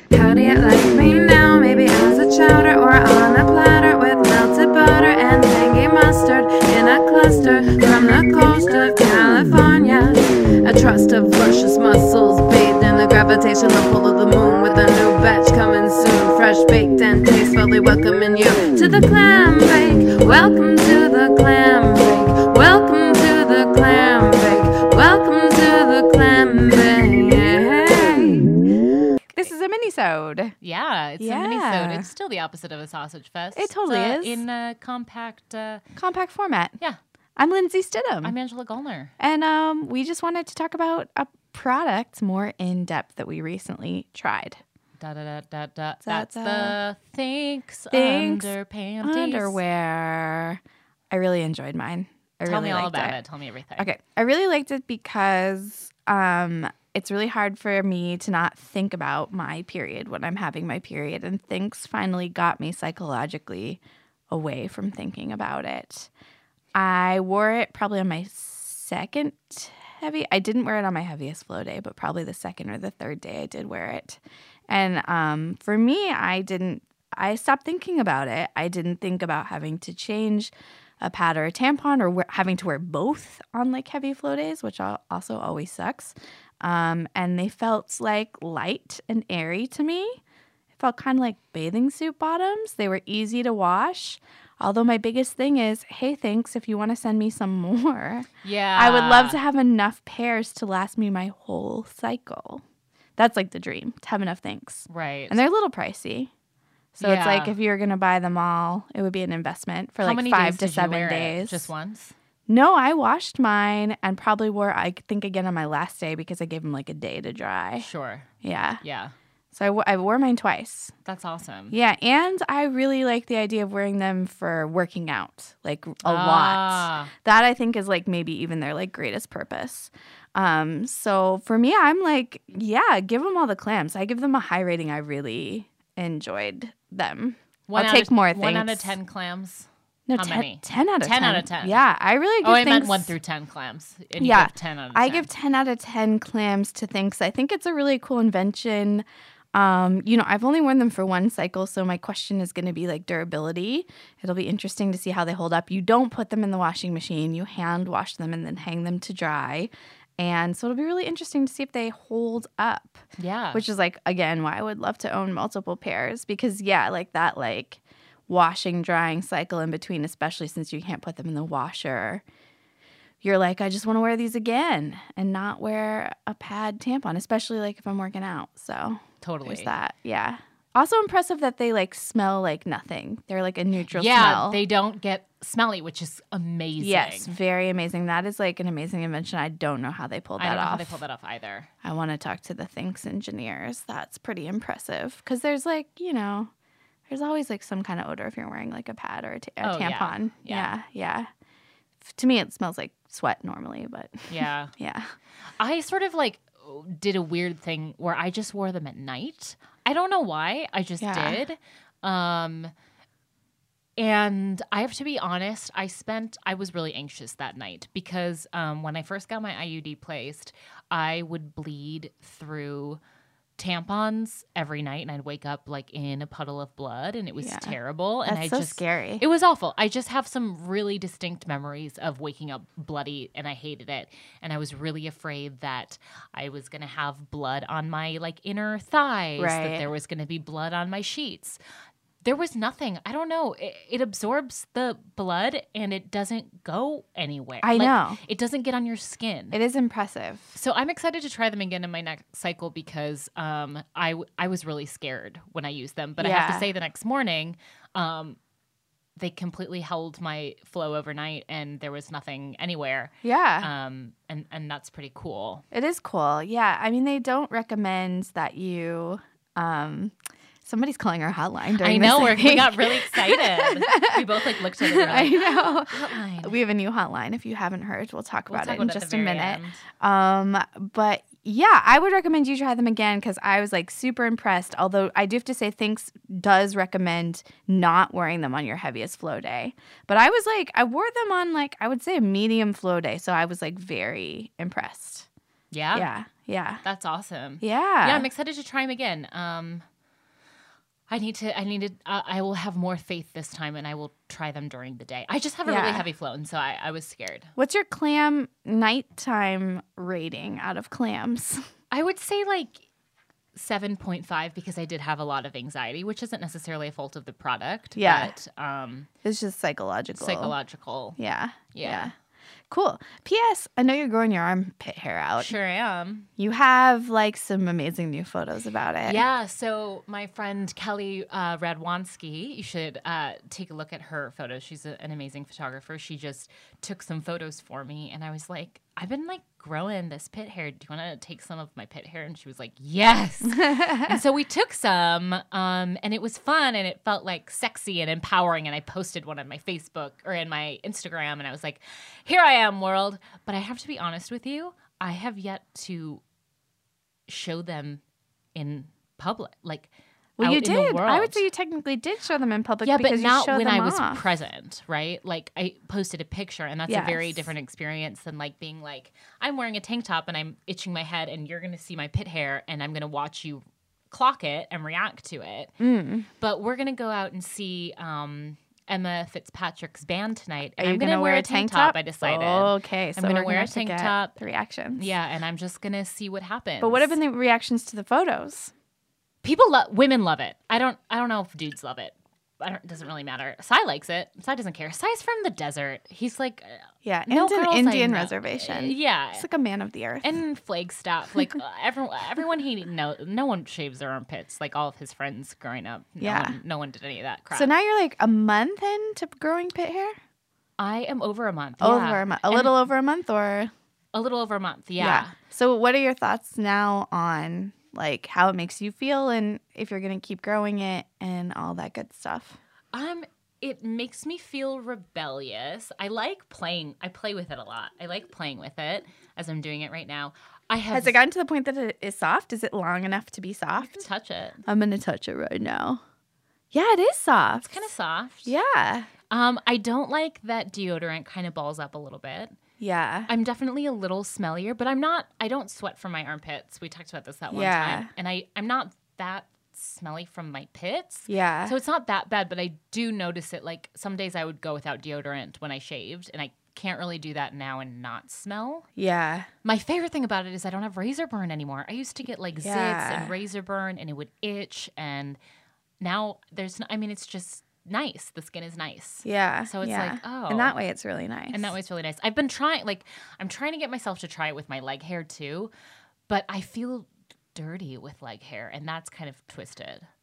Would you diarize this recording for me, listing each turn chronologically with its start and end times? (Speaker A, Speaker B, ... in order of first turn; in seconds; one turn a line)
Speaker A: 0.1-28.7
Speaker B: 29.3-30.6
Speaker C: 30.6-35.8
Speaker B: 31.2-32.1
Speaker B: 33.5-34.4
Speaker B: 36.0-36.8
Speaker B: 37.4-38.3
Speaker C: 38.2-39.1
Speaker B: 39.2-44.6
Speaker C: 45.0-49.6
Speaker B: 46.0-46.8
Speaker B: 47.9-53.2
Speaker C: 52.5-53.9
Speaker B: 53.8-63.8
Speaker B: 64.3-66.1
Speaker B: 66.8-90.2
Speaker B: 90.8-102.6
Speaker C: 98.4-99.4
Speaker B: 103.2-106.3
Speaker C: 104.9-105.4
Speaker B: 107.0-111.7
Speaker C: 107.0-107.6
Speaker C: 110.0-112.1
Speaker B: 112.5-117.9
Speaker C: 117.8-118.3
Speaker B: 118.4-118.8
Speaker C: 118.8-119.1
Speaker B: 119.5-120.9
Speaker C: 121.0-121.8
Speaker B: 121.7-139.0
Speaker C: 126.0-127.1
Speaker C: 137.7-141.8
Speaker B: 140.1-143.2
Speaker C: 142.4-145.3
Speaker B: 144.2-163.0
Speaker C: 163.2-163.7
Speaker B: 163.5-172.2
Speaker B: 173.2-184.6
Speaker C: 179.2-179.7
Speaker C: 183.9-187.3
Speaker B: 186.8-191.0
Speaker C: 190.4-191.7
Speaker B: 191.8-196.5
Speaker B: 197.1-201.3
Speaker C: 199.6-200.7
Speaker B: 202.1-205.1
Speaker C: 204.3-204.7
Speaker C: 205.6-212.7
Speaker B: 211.0-211.4
Speaker C: 214.0-223.0
Speaker C: 223.6-241.6
Speaker B: 227.4-229.2
Speaker B: 239.4-239.9
Speaker C: 242.2-249.6
Speaker B: 247.6-248.2
Speaker B: 249.5-250.6
Speaker C: 250.6-258.4
Speaker B: 256.2-256.7
Speaker C: 259.2-265.6
Speaker B: 263.2-263.7
Speaker B: 265.7-274.2
Speaker C: 271.8-276.6
Speaker B: 274.8-295.3
Speaker C: 278.5-279.8
Speaker C: 295.7-296.1
Speaker B: 295.9-296.8
Speaker C: 296.8-299.8
Speaker B: 297.6-298.3
Speaker C: 301.1-307.5
Speaker B: 305.6-306.1
Speaker B: 307.6-311.6
Speaker C: 311.9-312.8
Speaker C: 313.5-319.1
Speaker B: 317.9-318.3
Speaker B: 319.2-320.5
Speaker C: 320.1-321.2
Speaker B: 321.2-322.1
Speaker C: 321.7-322.1
Speaker B: 322.7-325.5
Speaker C: 325.4-326.3
Speaker B: 326.4-329.2
Speaker C: 329.0-356.2
Speaker B: 343.5-344.2
Speaker C: 357.3-358.0
Speaker C: 358.5-361.4
Speaker B: 360.4-364.2
Speaker C: 362.8-375.7
Speaker B: 366.9-367.5
Speaker B: 375.8-376.3
Speaker C: 376.4-384.4
Speaker B: 380.8-385.1
Speaker C: 384.9-387.2
Speaker B: 386.8-388.7
Speaker C: 389.4-399.5
Speaker B: 397.0-400.3
Speaker C: 400.2-407.7
Speaker B: 406.2-406.6
Speaker B: 407.5-410.1
Speaker C: 410.8-412.8
Speaker B: 411.8-413.7
Speaker C: 414.1-415.3
Speaker B: 415.0-422.6
Speaker C: 422.9-431.2
Speaker B: 430.9-434.0
Speaker C: 433.8-434.6
Speaker B: 434.7-436.0
Speaker B: 436.7-437.8
Speaker C: 437.6-438.5
Speaker B: 438.4-439.1
Speaker C: 439.3-442.6
Speaker B: 442.8-443.3
Speaker C: 443.3-458.9
Speaker B: 447.5-448.1
Speaker B: 451.3-451.8
Speaker B: 459.0-459.5
Speaker C: 459.6-465.4
Speaker B: 462.6-463.4
Speaker C: 466.0-470.8
Speaker B: 469.2-471.8
Speaker C: 471.5-475.7
Speaker C: 476.3-480.1